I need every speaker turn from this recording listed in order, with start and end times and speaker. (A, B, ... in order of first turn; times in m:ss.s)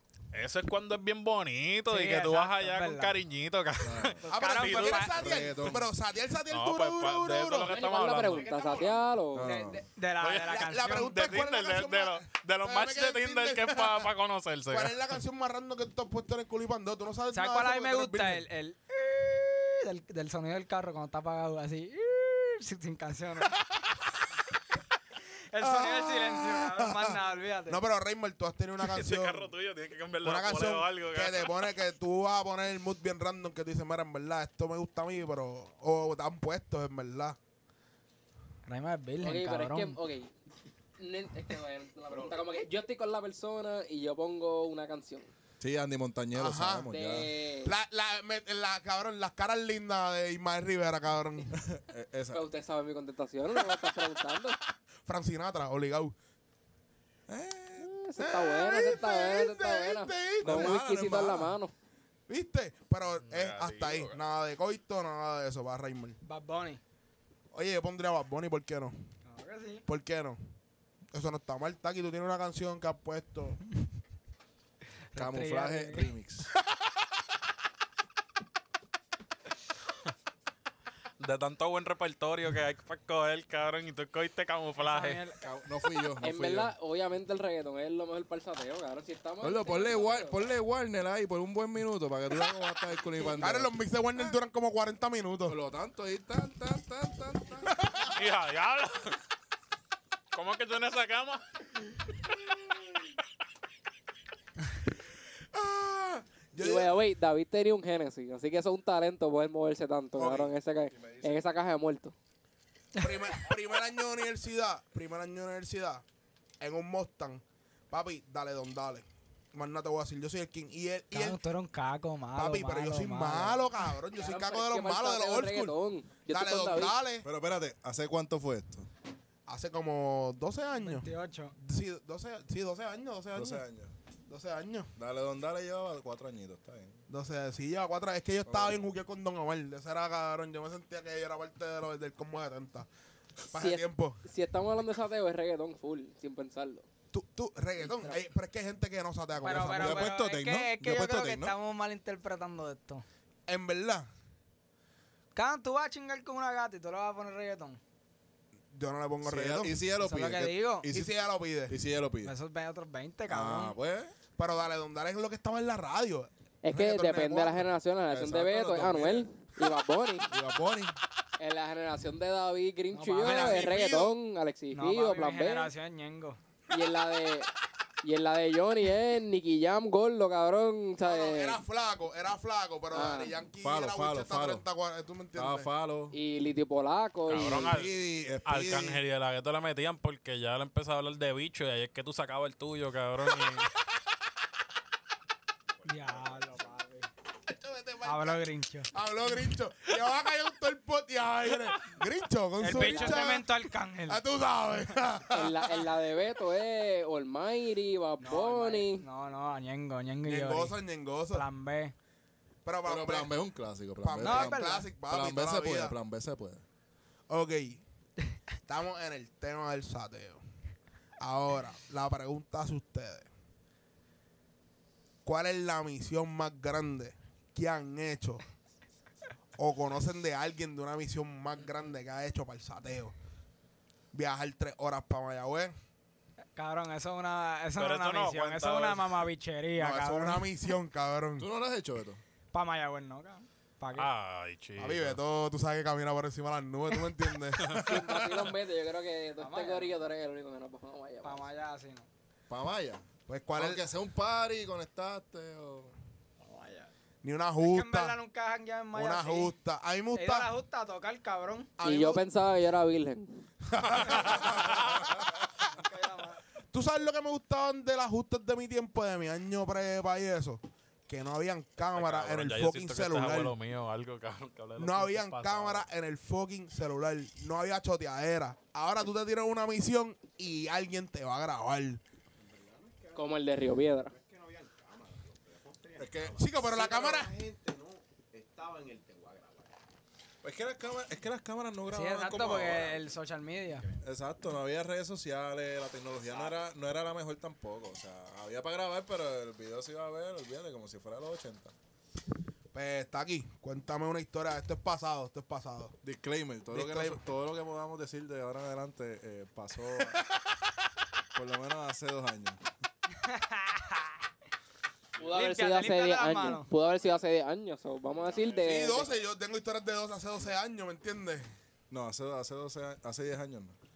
0:00.3-0:05.2 A
0:01.9-0:03.2 B
0:03.8-0:04.2 C
0:04.2-0:05.2 B
0:04.3-0:07.8 D
0:05.1-0:05.9 C
0:06.5-0:08.5 A
0:07.6-0:09.5 E
0:08.2-0:09.2 F
0:09.3-0:09.8 C
0:09.4-0:11.2 B
0:10.2-0:15.2 A
0:10.5-0:14.1 D
0:14.7-0:18.4 D
0:17.3-0:23.6 B
0:25.5-0:27.8 B
0:25.6-0:27.2 D
0:27.7-0:29.5 D
0:28.8-0:31.7 A
0:30.2-0:37.4 D
0:38.7-0:40.0 B
0:39.2-0:40.3 E
0:41.0-0:45.3 E
0:45.6-0:47.3 C
0:46.3-0:46.9 D
0:46.9-0:47.7 E
0:47.6-0:51.6 D
0:51.5-0:52.4 C
0:52.3-0:54.6 E
0:55.0-0:56.1 D
0:57.3-0:57.9 C
0:57.8-1:01.7 E
0:58.2-1:00.8 D
1:00.4-1:01.6 C
1:02.3-1:06.2 D
1:03.2-1:04.2 A
1:06.2-1:06.8 B
1:07.5-1:08.9 D
1:09.2-1:09.8 B
1:09.9-1:10.4 D
1:11.1-1:13.6 D
1:15.1-1:16.1 B
1:15.1-1:16.5 C
1:21.2-1:25.2 A
1:24.8-1:25.4 B
1:25.4-1:26.7 C
1:26.2-1:30.4 E
1:29.4-1:33.7 C
1:33.4-1:35.6 D
1:35.4-1:37.8 C
1:37.8-1:38.1 D
1:38.1-1:39.2 A
1:40.3-1:41.4 A
1:45.5-1:47.0 D
1:46.6-1:52.1 E
1:50.2-1:51.5 C
1:50.2-1:50.5 D
1:53.0-1:56.0 D
1:56.6-2:01.4 D
2:01.1-2:03.7 B
2:02.3-2:05.8 D
2:04.1-2:07.0 E
2:06.3-2:07.3 D
2:07.2-2:08.9 C
2:09.5-2:13.6 D
2:10.8-2:11.6 B
2:13.3-2:13.9 C
2:14.3-2:14.9 D
2:15.0-2:17.0 C
2:17.1-2:22.9 D
2:18.4-2:18.9 C
2:23.5-2:24.2 D
2:23.5-2:26.8 E
2:27.1-2:30.1 D
2:27.8-2:28.2 E
2:29.4-2:33.0 B
2:29.5-2:31.5 C
2:33.5-2:34.1 D
2:35.3-2:37.8 B
2:38.7-2:39.8 D
2:39.2-2:42.3 C
2:40.0-2:40.9 B
2:40.9-2:41.8 D
2:42.2-2:43.7 B
2:43.3-2:44.1 C
2:44.4-2:47.7 D
2:46.6-2:50.3 E
2:48.1-2:49.3 C
2:50.3-2:51.0 C
2:51.4-2:55.7 E
2:52.9-2:53.7 B
2:53.2-2:54.2 D
2:54.7-2:56.4 B
2:56.7-2:57.5 E
2:58.0-3:01.6 E
3:01.0-3:05.7 D
3:02.9-3:03.3 E
3:03.6-3:04.6 C
3:05.3-3:06.2 C
3:06.1-3:07.7 E
3:07.3-3:07.9 A
3:07.6-3:09.0 C
3:08.4-3:13.7 A
3:15.8-3:16.8 F
3:15.8-3:17.1 B
3:17.5-3:23.5 D
3:18.0-3:18.9 B
3:22.6-3:24.2 B
3:22.7-3:23.4 E
3:24.1-3:25.9 D
3:25.3-3:29.0 E
3:28.2-3:30.8 B
3:30.2-3:31.4 D
3:31.3-3:31.9 B
3:32.6-3:33.3 D
3:32.8-3:36.6 C
3:34.0-3:35.9 D
3:34.2-3:34.9 B
3:37.3-3:37.8 D
3:38.7-3:40.4 D
3:41.2-3:43.3 D
3:45.2-3:48.4 D
3:49.6-3:53.1 D
3:54.1-3:55.7 D
3:56.6-4:00.4 B
3:57.8-3:59.2 A
3:59.8-4:01.5 D
4:01.4-4:02.2 C
4:02.5-4:04.1 B
4:03.9-4:05.2 A
4:04.8-4:08.4 D
4:07.6-4:08.0 A
4:07.8-4:11.4 E
4:09.4-4:09.9 B
4:11.2-4:12.1 B
4:12.5-4:15.9 C
4:13.3-4:13.8 D
4:16.4-4:16.9 B
4:17.2-4:18.2 D
4:17.6-4:19.5 B
4:18.9-4:20.5 D
4:20.1-4:21.7 B
4:21.8-4:22.2 D
4:21.8-4:23.4 E
4:23.7-4:25.5 D
4:24.0-4:25.0 A
4:25.7-4:26.4 B
4:26.7-4:33.5 D
4:31.9-4:35.8 A
4:34.8-4:42.0 D
4:42.4-4:49.8 F
4:43.1-4:44.1 E
4:46.0-4:46.4 C
4:46.4-4:47.3 D
4:50.4-4:53.0 C
4:51.9-4:53.8 B
4:52.7-4:53.0 F
4:53.7-4:54.0 F
4:54.0-5:01.7 C
4:56.2-4:56.7 F
5:02.7-5:06.0 D
5:06.0-5:10.2 C
5:06.7-5:07.2 D
5:11.3-5:12.6 C
5:13.2-5:14.2 B
5:15.1-5:15.6 F
5:15.2-5:19.1 E
5:15.3-5:16.7 B
5:16.8-5:17.2 F
5:18.1-5:19.2 F
5:18.6-5:21.5 D
5:21.9-5:23.8 C